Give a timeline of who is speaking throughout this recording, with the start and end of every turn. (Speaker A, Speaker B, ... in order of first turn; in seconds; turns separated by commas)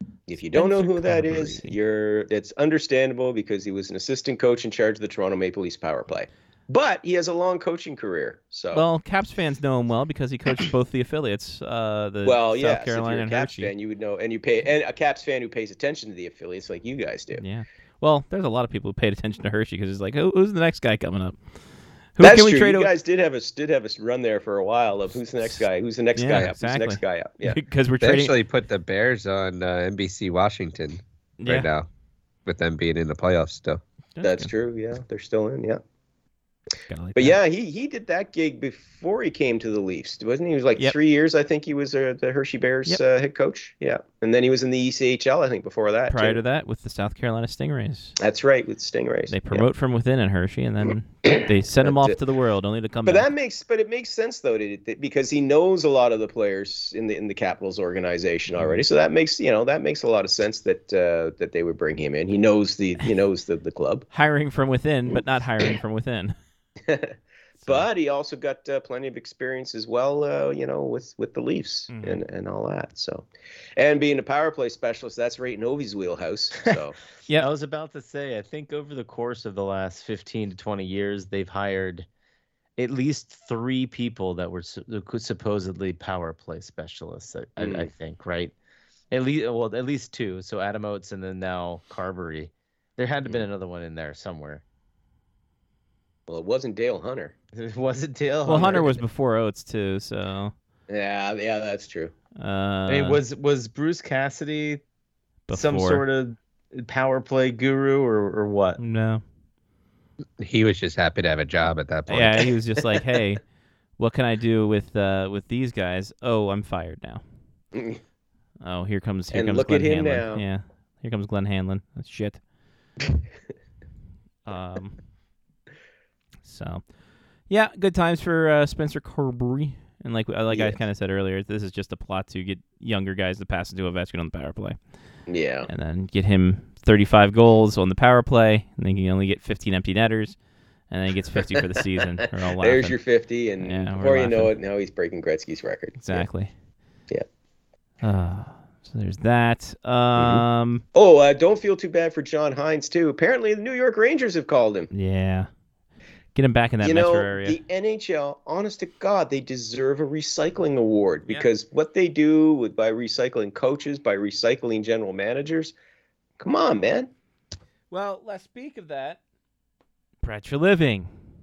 Speaker A: 0.3-8.8, Speaker B: 0.5-1.8, Speaker B: 8.7-13.7, Speaker A: 12.2-17.4, Speaker B: 17.3-21.4, Speaker B: 22.1-22.9, Speaker A: 22.2-27.6, Speaker B: 25.4-28.3, Speaker C: 28.0-31.9, Speaker B: 31.4-31.7, Speaker C: 32.5-33.8, Speaker B: 34.1-34.5, Speaker A: 34.2-35.8, Speaker B: 36.9-37.4, Speaker A: 37.1-46.4, Speaker B: 46.1-48.1, Speaker A: 48.2-49.6, Speaker B: 49.3-53.3, Speaker A: 51.8-52.2, Speaker A: 53.0-64.0, Speaker B: 58.5-58.8, Speaker B: 64.1-66.3, Speaker A: 66.9-77.0, Speaker B: 67.6-67.9, Speaker B: 71.9-72.2, Speaker D: 77.3-82.1, Speaker D: 82.8-88.5, Speaker A: 87.6-87.9, Speaker D: 89.1-94.6, Speaker A: 96.3-97.3, Speaker D: 97.5-99.0, Speaker B: 98.4-100.5, Speaker A: 98.5-98.8, Speaker A: 100.9-102.1, Speaker B: 102.4-103.2, Speaker D: 102.9-104.8, Speaker B: 105.5-106.0, Speaker D: 105.5-108.8, Speaker B: 108.8-109.2, Speaker C: 110.4-112.5, Speaker B: 112.1-113.4, Speaker B: 114.0-117.2, Speaker A: 117.7-118.0, Speaker B: 118.6-122.4, Speaker A: 119.3-120.4, Speaker B: 124.5-125.0, Speaker B: 126.4-126.8, Speaker B: 127.5-134.8, Speaker A: 130.5-130.8, Speaker A: 135.3-135.7, Speaker B: 135.7-140.3, Speaker B: 140.9-143.0, Speaker A: 142.2-146.2, Speaker B: 143.6-144.5, Speaker B: 146.0-146.5, Speaker B: 148.0-150.8, Speaker A: 150.2-150.4, Speaker A: 150.9-154.9, Speaker B: 154.9-155.5, Speaker B: 156.3-157.6, Speaker A: 156.8-165.7, Speaker A: 166.4-167.1, Speaker B: 167.9-169.2, Speaker B: 170.2-171.1